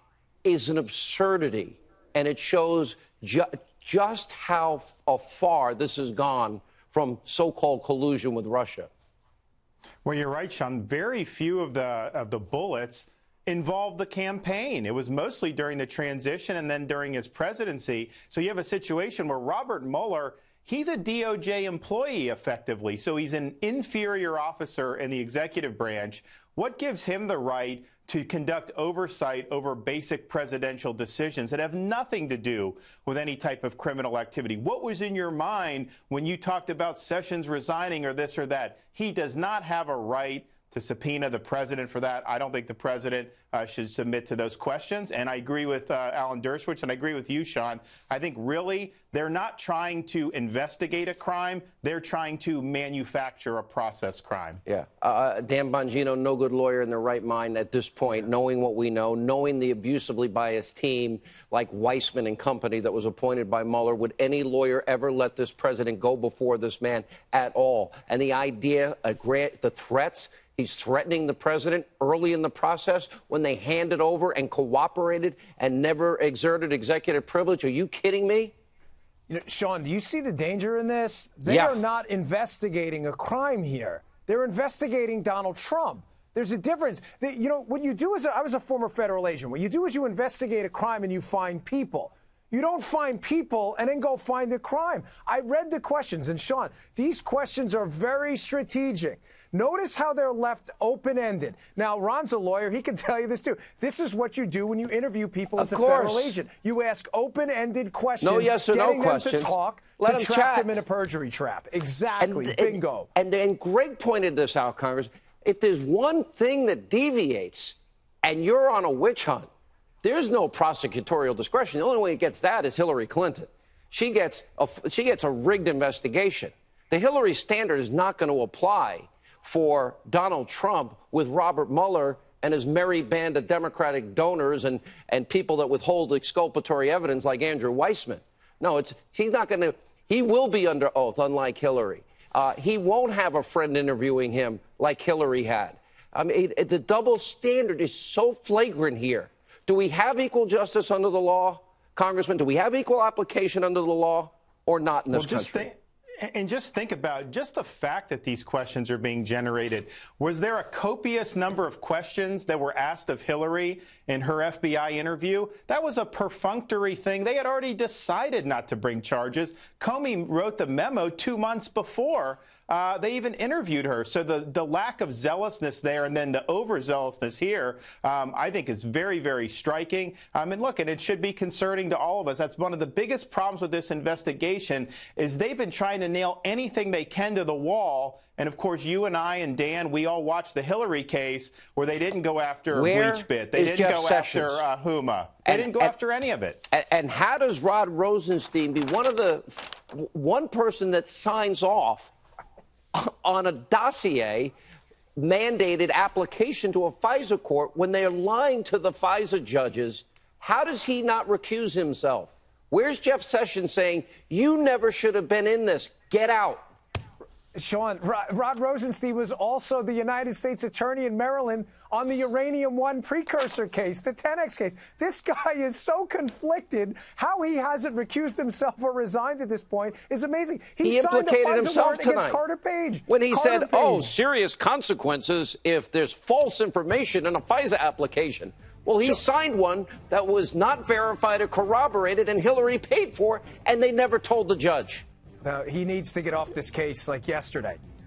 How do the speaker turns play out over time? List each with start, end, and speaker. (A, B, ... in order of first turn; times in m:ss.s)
0:00.4-0:08.9 A
0:10.0-0:54.6 B
0:54.7-1:18.5 A
1:19.3-1:53.1 C
1:21.5-1:21.8 A
1:45.6-1:46.4 A
1:48.2-1:50.8 A
1:52.2-1:59.5 A
2:00.0-2:35.7 A
2:35.1-3:16.6 B
3:12.7-3:14.6 A
3:15.4-3:15.9 A
3:16.7-3:22.1 A
3:22.9-3:24.5 A
3:25.2-3:36.7 A
3:37.6-3:54.1 C
3:50.8-3:52.4 A
3:53.1-4:05.0 A
4:05.4-4:07.8 C